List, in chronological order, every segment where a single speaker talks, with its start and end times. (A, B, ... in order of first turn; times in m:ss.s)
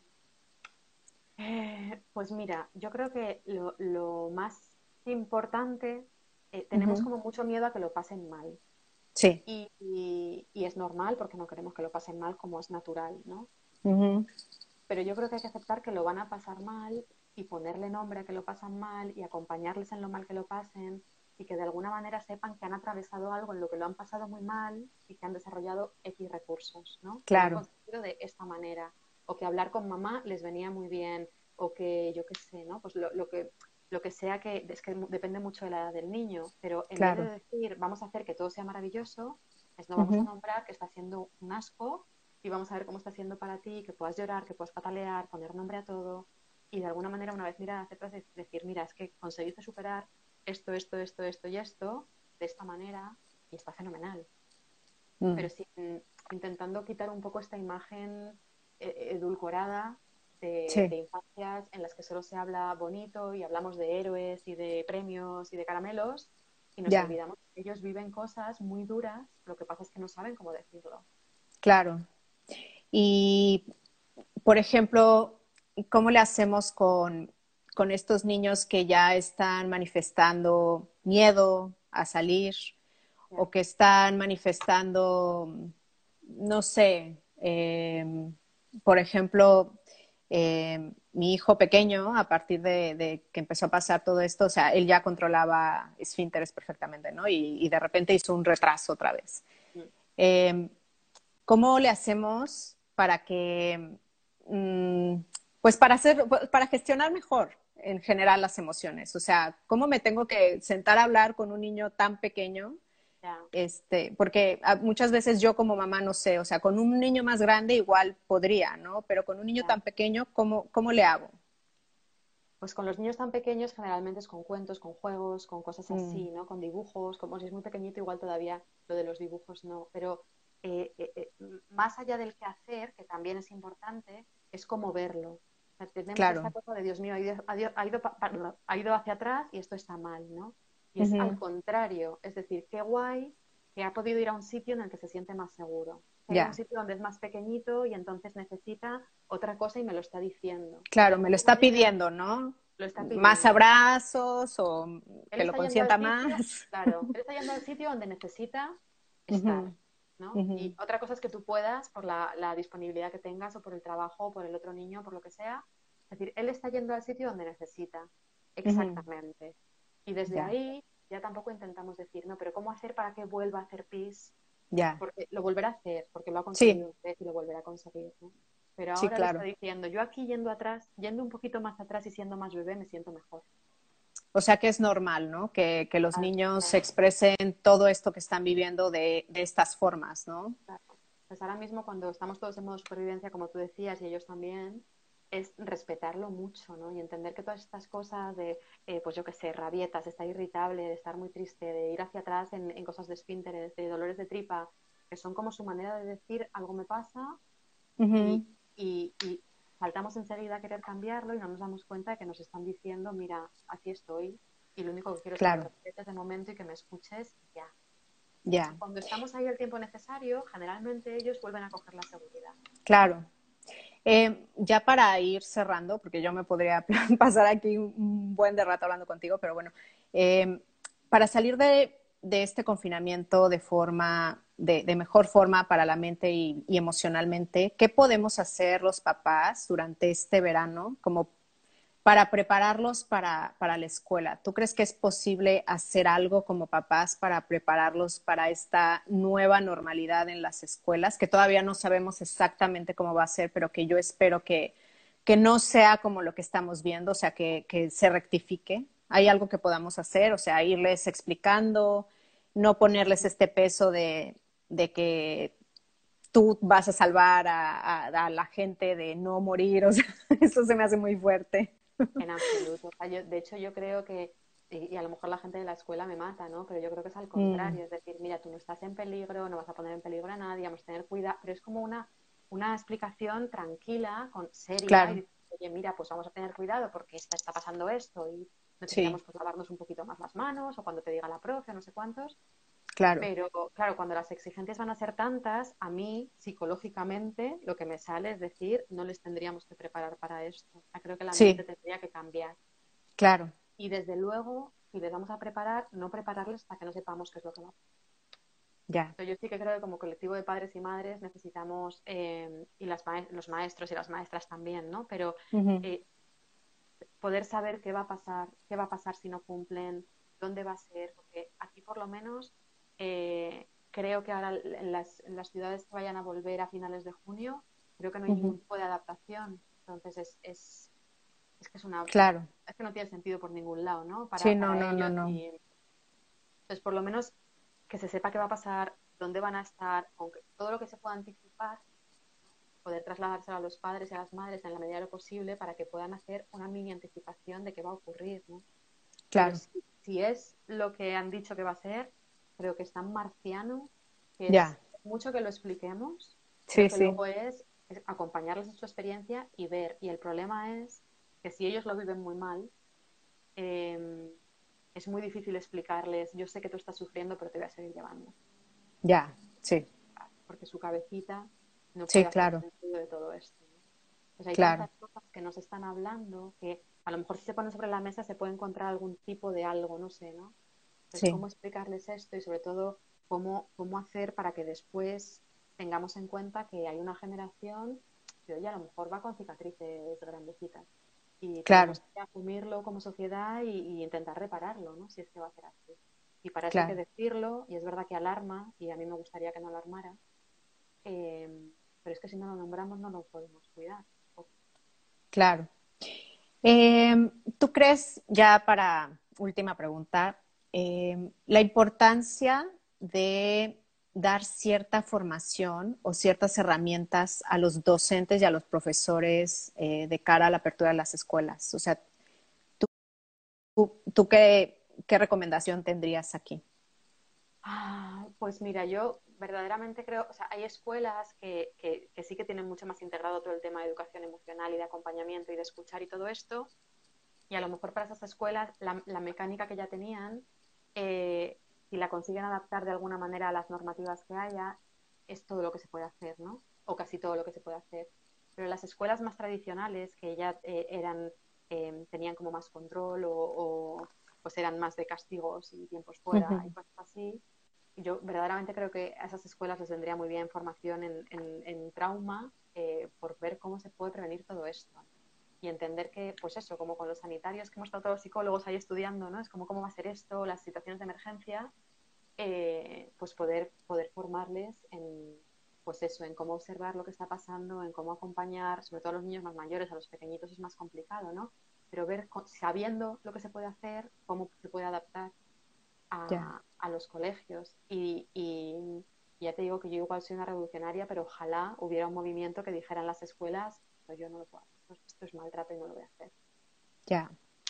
0:01.4-0:08.6 A
0:06.7-0:07.0 B
0:09.2-0:09.4 B
0:09.4-0:13.5 A
0:13.8-0:14.3 B
0:14.9-0:54.3 A
0:27.3-0:27.6 B
0:37.0-0:37.3 B
0:40.0-0:40.2 B
0:55.2-0:55.5 B
0:55.3-1:11.0 A
1:06.9-1:07.1 B
1:11.6-1:12.0 B
1:12.9-1:13.6 B
1:14.4-1:22.7 B
1:23.4-1:25.7 B
1:26.2-1:29.8 B
1:30.3-1:39.4 B
1:40.2-1:40.7 B
1:41.5-1:52.8 B
1:53.2-1:53.5 A
1:53.5-2:01.3 B
2:02.6-2:31.9 A
2:05.9-2:06.3 B
2:16.1-2:16.5 B
2:21.0-2:21.4 B
2:26.3-2:26.6 B
2:30.9-2:37.1 B
2:32.8-2:33.6 A
2:35.3-2:38.8 A
2:39.3-2:54.3 A
2:39.3-2:39.7 B
2:40.3-2:40.7 B
2:48.6-2:49.0 B
2:54.7-2:55.0 B
2:55.0-3:03.4 A
2:56.5-2:56.8 B
2:59.0-2:59.4 B
3:04.3-3:10.6 B
3:06.1-3:06.8 A
3:10.7-3:27.4 A
3:28.0-3:28.4 B
3:28.2-3:37.7 A
3:35.4-3:35.7 B
3:38.4-3:38.8 B
3:38.7-3:42.6 A
3:42.8-3:43.2 B
3:44.0-4:01.3 B
4:02.0-4:14.7 B
4:15.2-4:25.5 B
4:26.3-4:31.8 B
4:32.2-4:52.4 A
4:37.4-4:37.8 B
4:44.9-4:45.2 B
4:48.9-4:49.2 B
4:53.0-4:53.3 B
4:53.2-5:02.6 A
5:01.3-5:01.6 B
5:03.2-5:03.5 B
5:03.8-5:07.7 A
5:08.9-5:09.1 B
5:09.2-5:16.0 A
5:15.5-5:15.8 B
5:17.2-5:30.9 A
5:28.3-5:28.6 B
5:31.6-5:35.6 A
5:32.1-5:32.5 B
5:34.4-5:35.4 B
5:36.7-5:37.3 A
5:37.9-5:41.8 A
5:42.8-5:48.6 A
5:49.3-5:49.6 B
5:49.3-6:02.7 A
5:54.5-5:54.8 B
5:56.7-5:57.2 B
6:03.6-6:04.4 A
6:04.9-6:08.3 A
6:09.0-6:09.9 B
6:10.2-6:13.7 A
6:12.1-6:12.6 B
6:14.4-6:20.5 A
6:14.5-6:14.9 B
6:21.1-6:30.9 A
6:21.1-6:21.4 B
6:31.4-6:40.2 A
6:31.6-6:32.0 B
6:36.7-6:37.0 B
6:41.0-6:44.5 A
6:45.3-6:45.7 B
6:46.6-7:02.0 B
7:03.8-7:06.6 B
7:07.6-7:16.7 A
7:17.5-7:24.8 A
7:25.3-7:37.4 A
7:36.3-7:36.7 B
7:38.0-7:45.0 A
7:45.6-7:51.7 A
7:52.4-8:05.3 A
8:06.1-8:16.3 A
8:17.1-8:17.3 B